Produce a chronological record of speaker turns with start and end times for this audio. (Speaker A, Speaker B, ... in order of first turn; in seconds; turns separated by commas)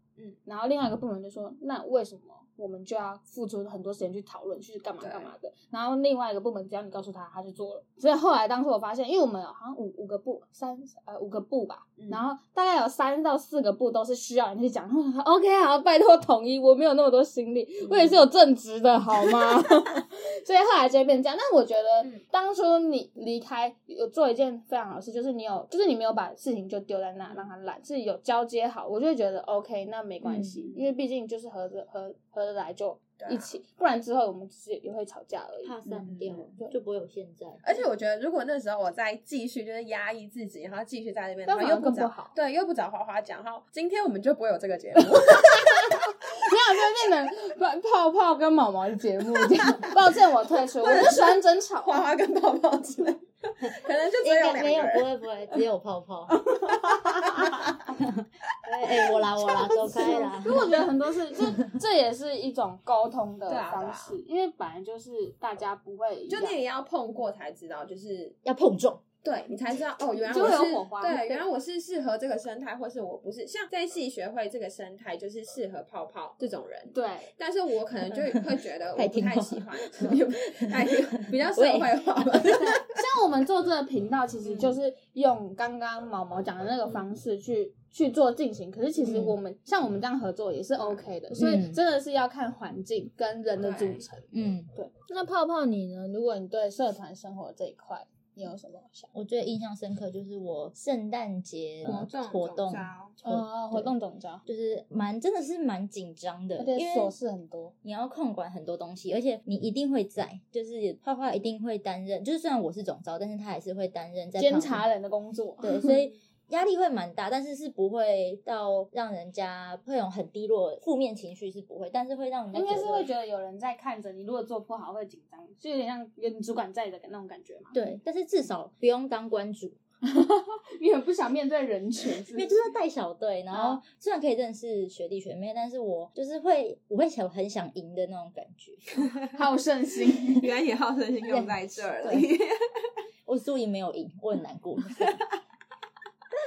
Speaker A: 0.5-36.8, Speaker B: 5.0-5.3, Speaker B: 17.8-18.3, Speaker C: 30.2-30.6, Speaker B: 33.2-33.6, Speaker C: 35.6-37.6, Speaker B: 36.0-36.5, Speaker B: 37.6-46.5, Speaker A: 41.5-42.3, Speaker A: 45.0-52.1, Speaker B: 50.8-55.6, Speaker C: 53.6-56.4, Speaker B: 56.3-57.9, Speaker C: 57.4-61.8, Speaker B: 58.8-59.9, Speaker A: 59.6-66.6, Speaker B: 63.5-64.2, Speaker B: 66.3-68.4, Speaker C: 68.4-69.0, Speaker B: 69.2-83.0, Speaker A: 70.2-71.4, Speaker A: 76.9-77.3, Speaker C: 78.1-82.5, Speaker A: 82.4-99.1, Speaker B: 84.4-84.8, Speaker B: 89.0-89.3, Speaker C: 89.1-89.4, Speaker B: 90.8-91.1, Speaker C: 91.4-91.8, Speaker B: 93.6-94.1, Speaker C: 94.3-94.7, Speaker C: 99.1-103.9, Speaker B: 101.8-103.2, Speaker A: 103.2-104.4, Speaker C: 104.5-107.1, Speaker A: 106.6-107.7, Speaker C: 107.8-114.8, Speaker A: 114.4-116.0, Speaker C: 115.6-123.1, Speaker A: 122.5-127.8, Speaker C: 127.7-129.8, Speaker A: 130.0-132.5, Speaker C: 132.3-139.1, Speaker A: 133.5-133.8, Speaker B: 139.0-139.3, Speaker A: 139.3-140.5, Speaker B: 140.3-142.9, Speaker C: 141.2-142.3, Speaker C: 143.3-145.2